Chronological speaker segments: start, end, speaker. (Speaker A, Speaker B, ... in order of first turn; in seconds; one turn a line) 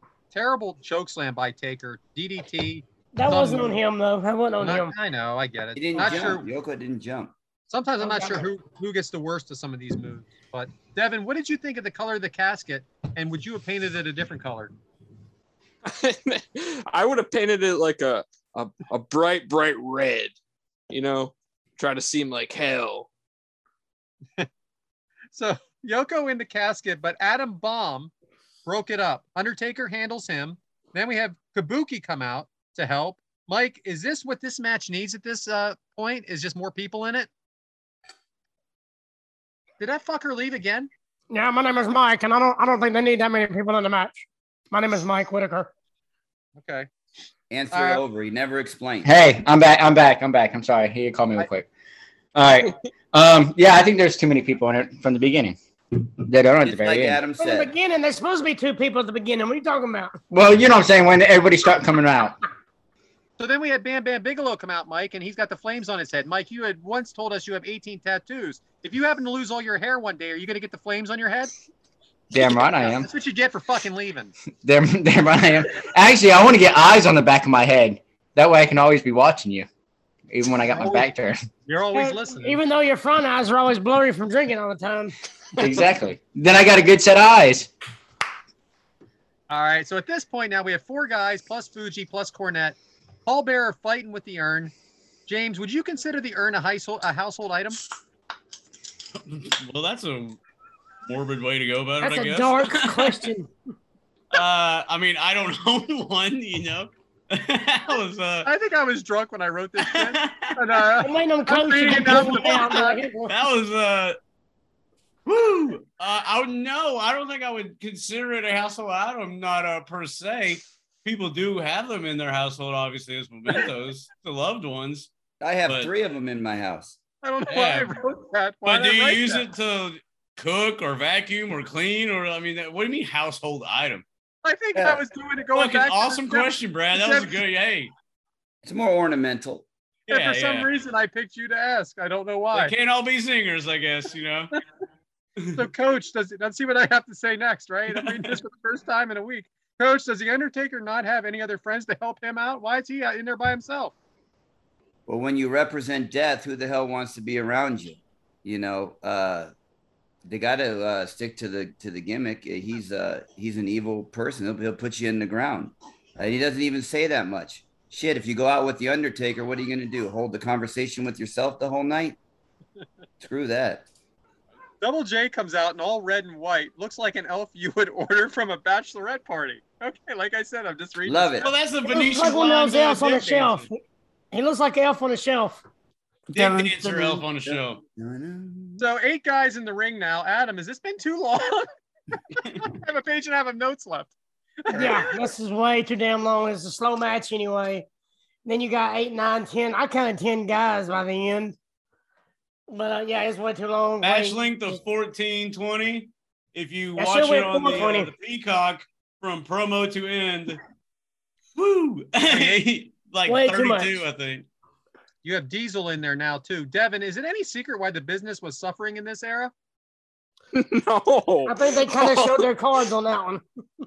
Speaker A: 0.3-3.8
Speaker B: 3.1-4.9
Speaker A: 4.6-6.5
Speaker C: 5.7-7.3
Speaker A: 7.7-14.7
Speaker B: 8.0-8.4
Speaker D: 15.8-20.4
Speaker D: 20.9-23.1
Speaker A: 25.3-28.1
Speaker A: 28.6-37.3
Speaker A: 39.8-40.9
Speaker B: 41.3-45.7
Speaker A: 46.6-46.9
Speaker C: 47.5-49.1
Speaker A: 47.7-48.0
Speaker E: 49.0-51.7
Speaker E: 52.3-55.5
Speaker E: 56.2-57.2
Speaker C: 56.6-57.7
Speaker B: 57.4-60.2
Speaker E: 60.3-62.4
Speaker A: 63.4-71.5
Speaker E: 72.3-73.1
Speaker A: 72.5-74.3
Speaker E: 74.6-79.7
Speaker E: 80.3-81.4
Speaker A: 80.7-81.1
Speaker A: 81.7-82.6
Speaker B: 81.9-85.1
Speaker E: 85.6-87.7
Speaker A: 89.5-94.7
Speaker A: 95.3-97.8
Speaker F: 99.2-100.4
Speaker F: 101.1-103.3
Speaker B: 102.0-103.5
Speaker F: 104.3-108.5
Speaker A: 108.5-113.0
Speaker F: 109.8-110.8
Speaker B: 111.0-113.3
Speaker F: 112.2-112.7
Speaker F: 113.3-114.2
Speaker F: 115.2-125.1
Speaker C: 125.4-127.0
Speaker F: 125.7-125.9
Speaker A: 127.2-129.4
Speaker F: 127.5-127.9
Speaker F: 128.6-134.0
Speaker A: 134.4-137.3
Speaker C: 134.7-135.0
Speaker F: 135.5-137.9
Speaker C: 138.6-139.7
Speaker F: 140.1-140.7
Speaker A: 140.1-142.7
Speaker F: 142.5-144.6
Speaker F: 145.4-145.7
Speaker A: 145.5-153.9
Speaker F: 147.9-148.4
Speaker C: 155.1-159.5
Speaker C: 160.2-172.2
Speaker C: 173.2-173.9
Speaker A: 174.8-181.5
Speaker C: 181.1-181.5
Speaker F: 181.4-183.7
Speaker B: 181.9-183.8
Speaker B: 184.3-185.6
Speaker F: 186.3-187.8
Speaker C: 186.3-188.9
Speaker A: 188.8-191.7
Speaker A: 192.3-195.1
Speaker B: 194.7-197.8
Speaker B: 198.4-201.6
Speaker B: 202.7-204.8
Speaker F: 204.0-210.6
Speaker B: 207.0-208.1
Speaker F: 211.6-214.5
Speaker A: 212.2-212.6
Speaker B: 213.3-214.0
Speaker A: 215.2-219.5
Speaker D: 220.5-222.4
Speaker B: 221.4-223.4